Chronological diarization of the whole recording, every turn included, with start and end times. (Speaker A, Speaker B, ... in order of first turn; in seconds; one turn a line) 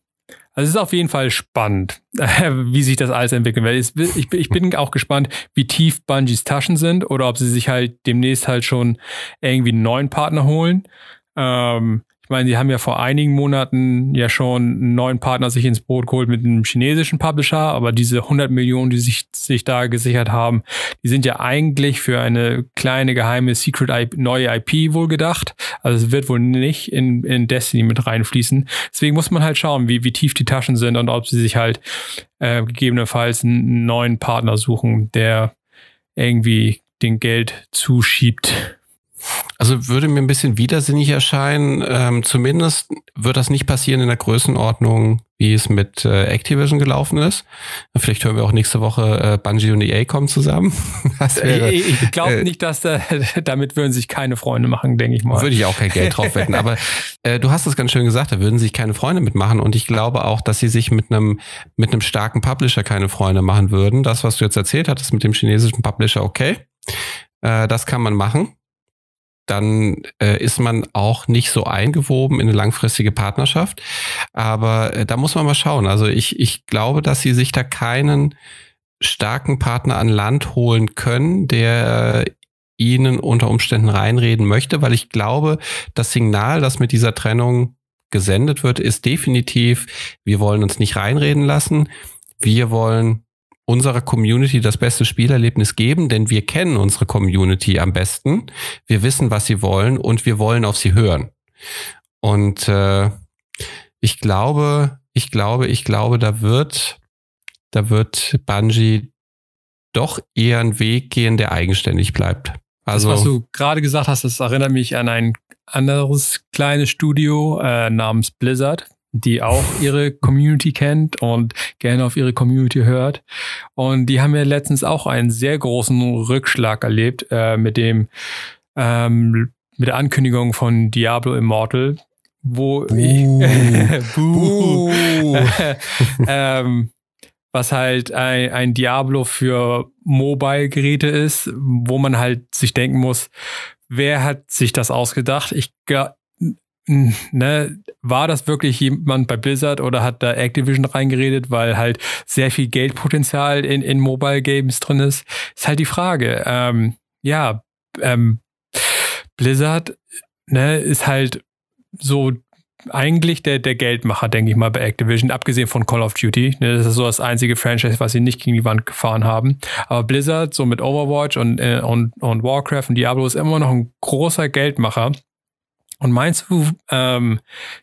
Speaker A: 0.5-10.8
Speaker A: 11.3-31.8
Speaker A: 32.4-35.5
Speaker A: 36.1-38.7
Speaker B: 39.6-52.4
Speaker A: 51.4-56.6
Speaker B: 55.3-66.7
Speaker B: 67.4-68.5
Speaker B: 69.5-73.8
Speaker B: 74.3-78.3
Speaker B: 79.0-91.9
Speaker B: 92.4-101.3
Speaker B: 102.2-103.1
Speaker B: 104.0-107.0
Speaker B: 107.7-109.1
Speaker B: 109.9-113.3
Speaker A: 112.9-123.2
Speaker A: 123.8-128.1
Speaker A: 128.7-136.9
Speaker B: 132.9-135.5
Speaker A: 137.5-143.3
Speaker A: 143.9-161.4
Speaker A: 162.0-162.4
Speaker A: 162.9-175.2
Speaker A: 176.0-177.4